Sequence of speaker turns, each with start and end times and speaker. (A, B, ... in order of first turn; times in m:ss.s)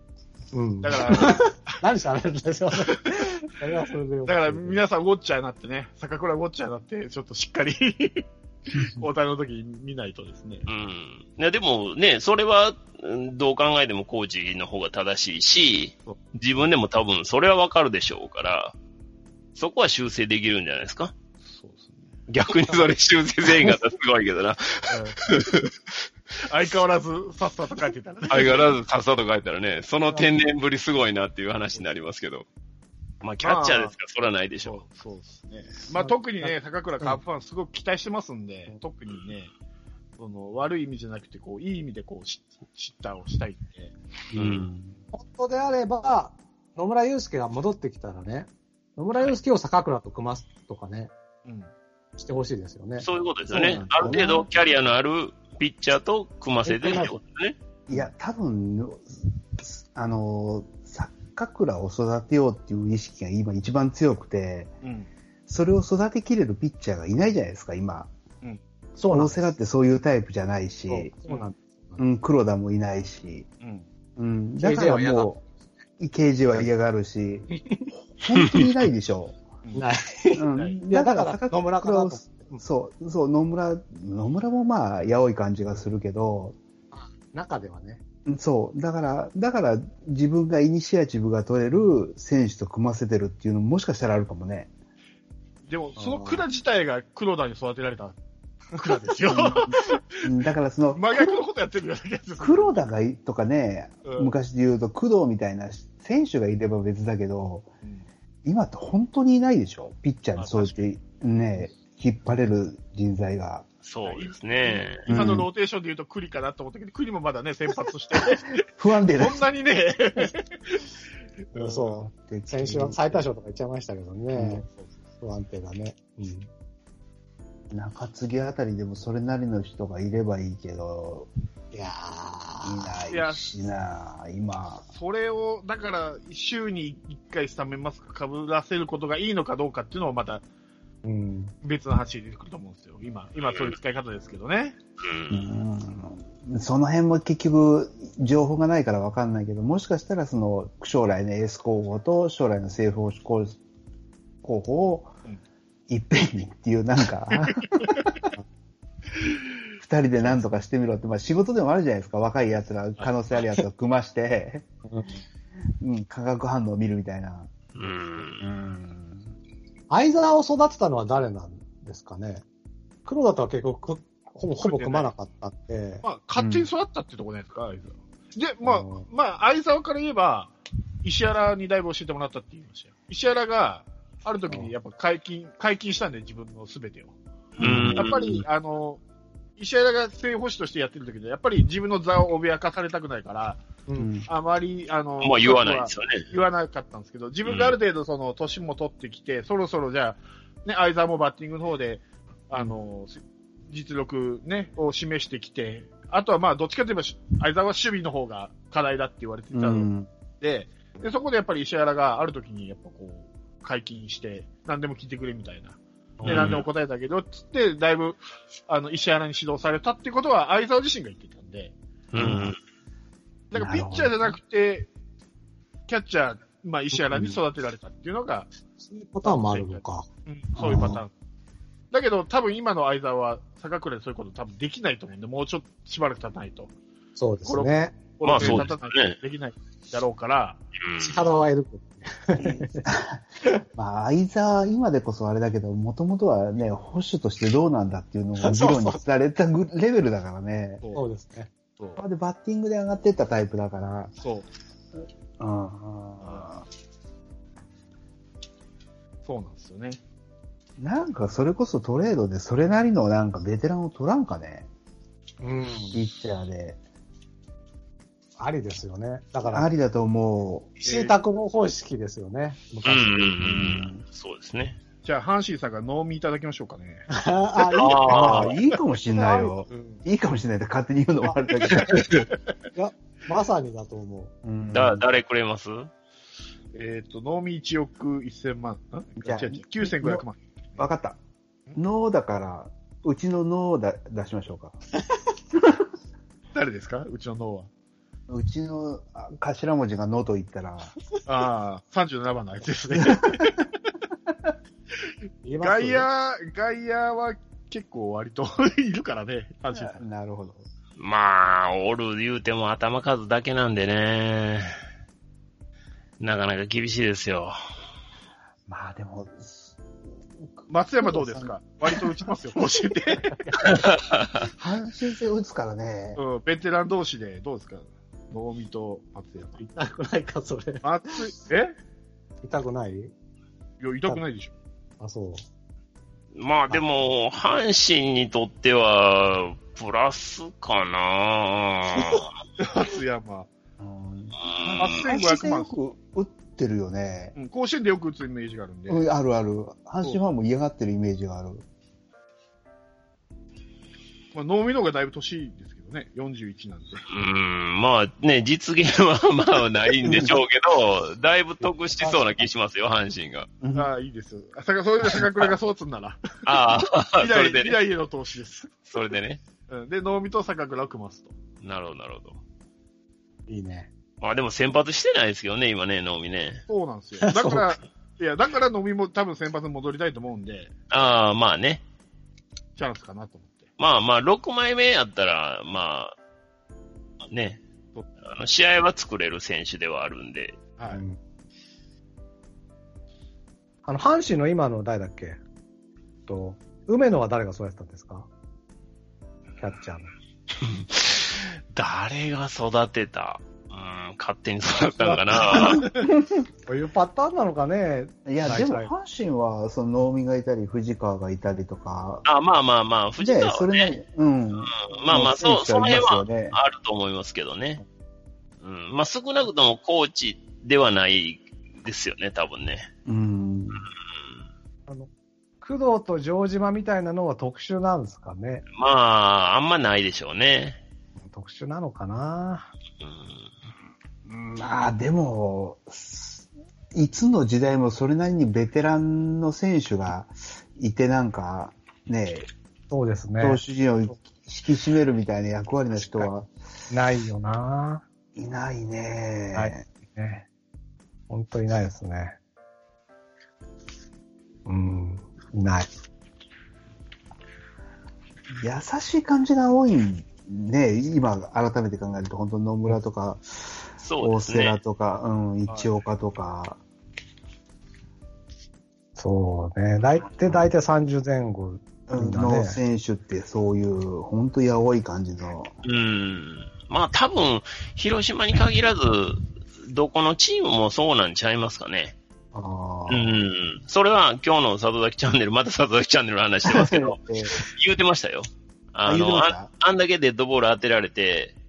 0:00.5-0:04.8 A
0:00.8-0:01.5 B
0:02.9-0:03.2 B
0:04.2-0:10.7 B
0:10.7-0:18.7 C
0:19.6-0:21.1 C
0:21.4-0:22.2 B
0:22.3-0:25.7 C
0:24.9-0:25.2 B
0:26.4-0:28.7 B
0:28.3-0:32.4 C
0:33.2-0:34.8 C
0:33.4-0:33.9 B
0:34.6-0:39.5 B
0:36.0-0:37.2 A
0:40.2-0:43.9 B
0:44.3-0:45.0 D
0:44.3-0:44.7 C
0:45.1-0:51.1 A
0:51.4-0:51.7 B
0:52.2-0:54.4 A
0:53.0-0:57.6 C
0:53.7-0:54.5 D
0:56.6-0:57.2 A
0:57.9-1:04.7 D
1:04.8-1:05.1 B
1:05.5-1:08.1 D
1:09.0-1:09.4 A
1:09.1-1:11.1 D
1:10.9-1:12.1 A
1:12.0-1:13.5 D
1:13.6-1:13.8 B
1:14.2-1:15.4 D
1:14.6-1:15.3 A
1:16.0-1:17.5 D
1:17.5-1:17.9 A
1:18.2-1:19.4 D
1:19.7-1:22.6 A
1:20.3-1:26.6 D
1:20.5-1:20.8 B
1:26.9-1:28.0 A
1:28.2-1:34.7 D
1:35.7-1:38.2 B
1:36.0-1:36.4 A
1:38.7-1:40.3 B
1:39.3-1:41.4 D
1:40.9-1:42.8 B
1:42.4-1:47.7 D
1:44.0-1:44.3 B
1:48.4-1:53.7 D
1:50.4-1:50.8 B
1:53.8-1:55.1 C
1:54.0-1:58.6 B
1:55.1-1:55.5 D
1:58.7-1:59.4 D
1:59.1-2:00.9 B
2:01.5-2:02.0 B
2:01.5-2:04.6 A
2:02.2-2:03.2 D
2:04.3-2:04.6 D
2:04.7-2:05.0 B
2:05.2-2:06.5 A
2:07.7-2:11.3 D
2:11.7-2:12.9 A
2:12.6-2:14.8 D
2:13.1-2:13.4 B
2:14.9-2:20.4 B
2:21.0-2:21.5 A
2:21.6-2:24.8 B
2:23.4-2:23.8 C
2:25.0-2:25.4 C
2:25.3-2:33.6 D
2:34.4-2:35.1 D
2:35.9-2:38.2 D
2:39.8-2:44.6 D
2:45.8-2:47.5 D
2:47.8-2:48.4 C
2:48.4-2:49.3 D
2:49.9-2:52.4 A
2:53.0-2:56.0 A
2:54.6-2:55.1 B
2:56.0-3:07.1 B
2:56.4-2:56.7 D
2:58.6-2:59.0 A
3:07.6-3:08.3 C
3:07.6-3:08.2 D
3:08.0-3:09.0 B
3:09.6-3:13.6 B
3:14.0-3:14.3 D
3:14.3-3:29.9 B
3:15.2-3:16.3 C
3:17.4-3:17.8 C
3:29.5-3:30.1 D
3:30.4-3:41.7 B
3:36.2-3:36.6 D
3:36.3-3:36.6 C
3:42.1-3:42.6 C
3:42.2-3:42.5 D
3:43.5-3:44.9 B
3:43.5-3:44.2 D
3:45.9-3:48.5 B
3:48.8-3:50.1 A
3:49.2-3:51.1 B
3:50.6-3:51.0 D
3:50.6-3:51.0 A
3:51.9-3:56.7 B
3:57.2-3:57.9 A
3:57.4-4:00.6 B
3:58.2-3:59.2 C
4:00.8-4:01.2 C
4:01.0-4:02.8 A
4:02.4-4:03.2 D
4:03.7-4:10.8 D
4:08.4-4:09.0 A
4:10.9-4:11.5 A
4:12.0-4:14.1 D
4:14.2-4:14.5 B
4:15.4-4:16.6 D
4:16.2-4:16.5 B
4:19.2-4:20.0 B
4:20.8-4:24.7 D
4:25.4-4:26.0 A
4:25.9-4:26.8 D
4:28.4-4:29.7 A
4:29.4-4:30.7 D
4:30.8-4:33.4 A
4:30.8-4:31.2 B
4:32.8-4:34.8 C
4:33.4-4:34.0 D
4:35.0-4:37.1 B
4:37.1-4:38.5 A
4:37.8-4:38.5 C
4:38.0-4:42.3 D
4:39.1-4:39.5 A
4:39.7-4:40.0 B
4:42.7-4:44.3 A
4:44.4-4:45.0 D
4:44.7-4:45.9 C
4:46.7-4:50.8 B
4:49.2-4:50.2 D
4:50.8-4:51.2 D
4:51.7-4:54.8 D
4:56.5-4:57.7 B
4:58.3-5:00.9 D
5:01.2-5:03.6 B
5:03.0-5:03.5 D
5:05.4-5:06.1 A
5:05.6-5:10.0 B
5:09.7-5:10.6 D
5:11.0-5:14.7 C
5:16.2-5:17.5 C
5:18.7-5:19.7 D
5:20.6-5:21.5 D
5:20.7-5:23.4 B
5:23.8-5:24.4 C
5:24.5-5:26.2 D
5:26.2-5:29.6 B
5:29.6-5:31.2 A
5:30.8-5:31.8 B
5:32.4-5:33.1 A
5:33.8-5:34.5 B
5:35.0-5:35.4 A
5:36.3-5:42.3 C
5:42.6-5:43.5 B
5:43.8-5:47.3 D
5:44.4-5:45.0 C
5:44.8-5:45.7 B
5:47.3-5:49.0 B
5:48.9-5:51.6 D
5:54.3-5:57.0 B
5:57.1-6:03.5 C
6:00.0-6:00.4 D
6:03.6-6:03.9 D
6:03.7-6:06.2 B
6:06.4-6:07.8 C
6:07.2-6:08.7 B
6:08.8-6:09.4 C
6:09.7-6:11.3 B
6:11.6-6:12.4 C
6:13.5-6:13.9 A
6:14.2-6:16.6 C
6:16.7-6:20.7 B
6:17.2-6:17.7 A
6:20.9-6:21.8 C
6:22.8-6:23.7 B
6:23.8-6:26.1 C
6:27.3-6:27.6 C
6:28.2-6:30.6 C
6:30.9-6:31.2 A
6:33.8-6:35.4 A
6:36.3-6:38.3 A
6:39.6-6:40.1 A
6:40.6-6:45.9 C
6:45.5-6:46.3 D
6:45.6-6:46.0 B
6:46.7-6:48.9 A
6:48.2-6:52.2 D
6:52.2-6:53.9 C
6:53.2-6:56.6 D
6:54.6-6:57.8 C
6:58.6-7:02.9 C
7:03.0-7:03.9 D
7:05.6-7:08.6 A
7:08.8-7:10.8 C
7:11.2-7:12.7 A
7:13.0-7:13.5 C
7:14.2-7:22.5 D
7:22.9-7:23.6 A
7:23.4-7:26.5 D
7:26.9-7:28.0 A
7:28.3-7:29.8 D
7:29.5-7:30.4 A
7:31.3-7:32.4 A
7:34.6-7:35.9 A
7:38.6-7:46.8 D
7:44.0-7:44.8 C
7:45.7-7:45.9 B
7:49.2-7:52.8 A
7:52.1-7:55.7 D
7:55.8-8:02.2 C
8:02.6-8:02.8 A
8:02.6-8:03.3 D
8:03.1-8:11.6 C
8:06.7-8:07.6 D
8:09.0-8:09.7 D